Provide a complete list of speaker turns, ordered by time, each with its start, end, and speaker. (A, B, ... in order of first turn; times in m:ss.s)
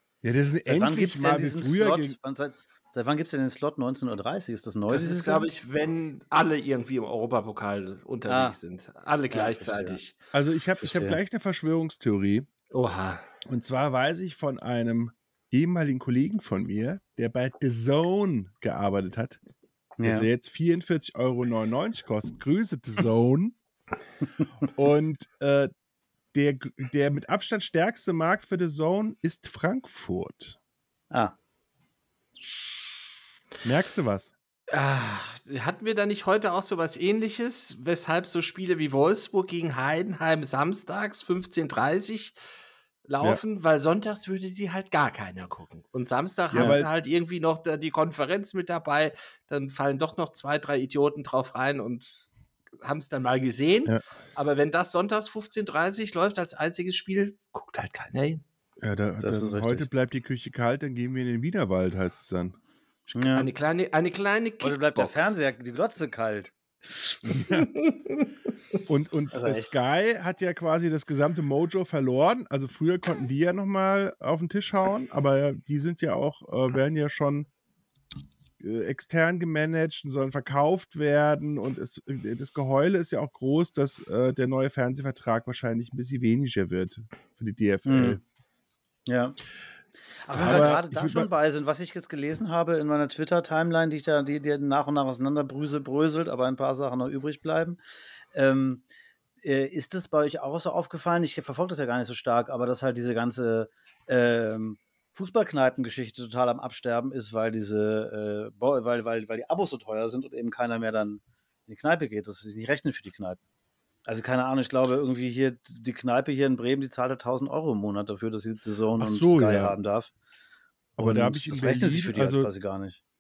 0:00.2-0:02.2 A
0:00.7-0:05.5 B
0:04.9-0:10.2 C
0:08.3-0:08.6 B
0:09.3-0:10.0 B
0:10.3-0:12.5 A
0:10.8-0:11.2 B
0:12.7-0:13.2 C
0:13.5-0:19.4 A
0:20.0-0:20.3 B
0:20.0-0:23.6 A
0:24.7-0:25.7 A
0:26.3-0:30.6 A
0:33.6-0:34.3 A
0:34.7-0:42.4 C
0:43.1-0:52.2 C
0:46.5-0:46.9 A
0:52.8-0:58.4 C
0:58.8-1:02.6 A
0:59.2-0:59.9 B
1:03.1-1:05.4 C
1:03.2-1:03.5 B
1:04.6-1:07.6 B
1:07.4-1:08.3 C
1:08.9-1:17.5 A
1:09.3-1:09.8 B
1:18.6-1:28.2 A
1:27.8-1:28.2 B
1:29.1-1:29.4 B
1:30.2-1:37.8 B
1:30.3-1:31.3 A
1:38.3-1:38.8 B
1:39.4-1:53.4 B
1:54.1-2:00.1 B
1:59.0-1:59.8 A
2:01.0-2:02.5 A
2:01.0-2:03.0 B